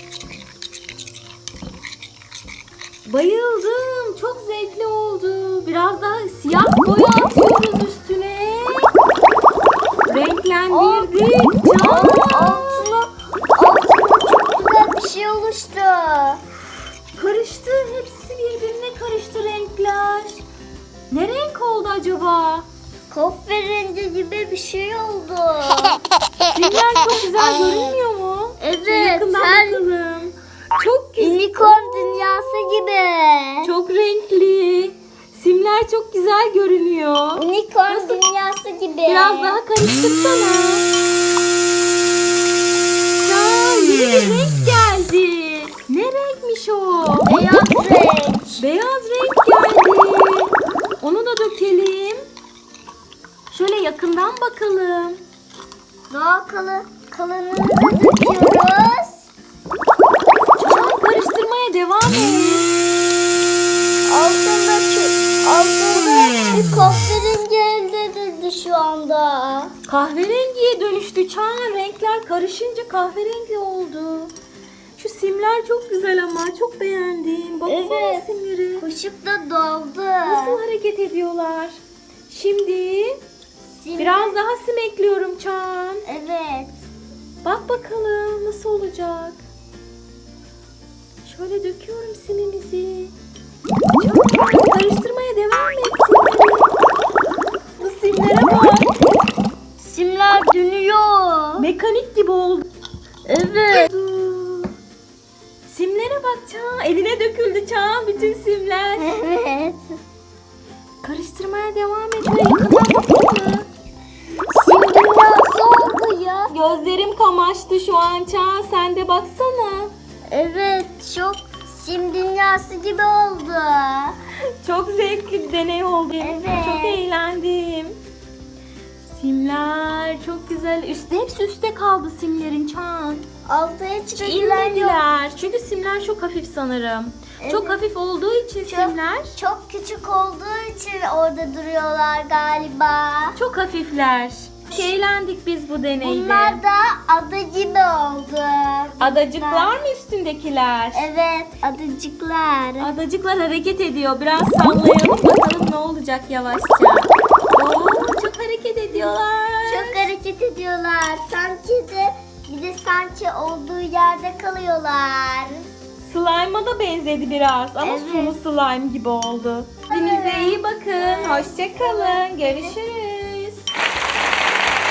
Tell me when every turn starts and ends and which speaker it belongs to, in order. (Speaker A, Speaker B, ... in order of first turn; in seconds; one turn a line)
Speaker A: 3.1-8.9
Speaker A: 10.1-12.8
Speaker B: 10.7-11.1
Speaker B: 11.8-16.4
Speaker A: 17.2-20.4
Speaker A: 21.1-22.7
Speaker B: 23.1-26.0
Speaker A: 26.5-31.7
Speaker B: 28.6-29.8
Speaker B: 31.2-33.7
Speaker A: 33.6-38.2
Speaker B: 37.4-39.6
Speaker A: 39.1-40.9
Speaker A: 43.2-47.6
Speaker B: 47.2-48.6
Speaker A: 48.6-52.2
Speaker A: 53.5-55.2
Speaker B: 56.1-59.2
Speaker A: 60.6-62.7
Speaker B: 60.6-61.0
Speaker B: 64.1-69.7
Speaker A: 69.9-74.3
Speaker A: 75.0-78.8
Speaker B: 77.7-80.6
Speaker A: 80.2-83.2
Speaker B: 83.8-84.4
Speaker A: 84.0-86.0
Speaker B: 86.0-86.7
Speaker A: 87.4-89.4
Speaker A: 91.2-93.1
Speaker A: 94.0-96.7
Speaker A: 97.8-98.9
Speaker B: 99.8-101.7
Speaker A: 101.6-102.7
Speaker B: 103.2-103.9
Speaker A: 103.7-104.7
Speaker A: 105.7-109.1
Speaker B: 109.0-110.0
Speaker A: 111.0-113.7
Speaker B: 114.5-116.5
Speaker A: 116.5-119.9
Speaker B: 120.3-124.2
Speaker A: 124.6-128.0
Speaker B: 126.2-127.0
Speaker A: 129.1-133.2
Speaker B: 133.4-135.1
Speaker A: 134.2-139.4
Speaker B: 137.4-137.8
Speaker B: 138.7-143.4
Speaker A: 143.4-146.6
Speaker B: 146.0-149.7
Speaker A: 149.0-151.0
Speaker B: 150.9-152.9
Speaker A: 152.8-160.0
Speaker B: 159.7-165.6
Speaker A: 166.0-173.7
Speaker B: 167.8-168.4
Speaker B: 169.9-172.8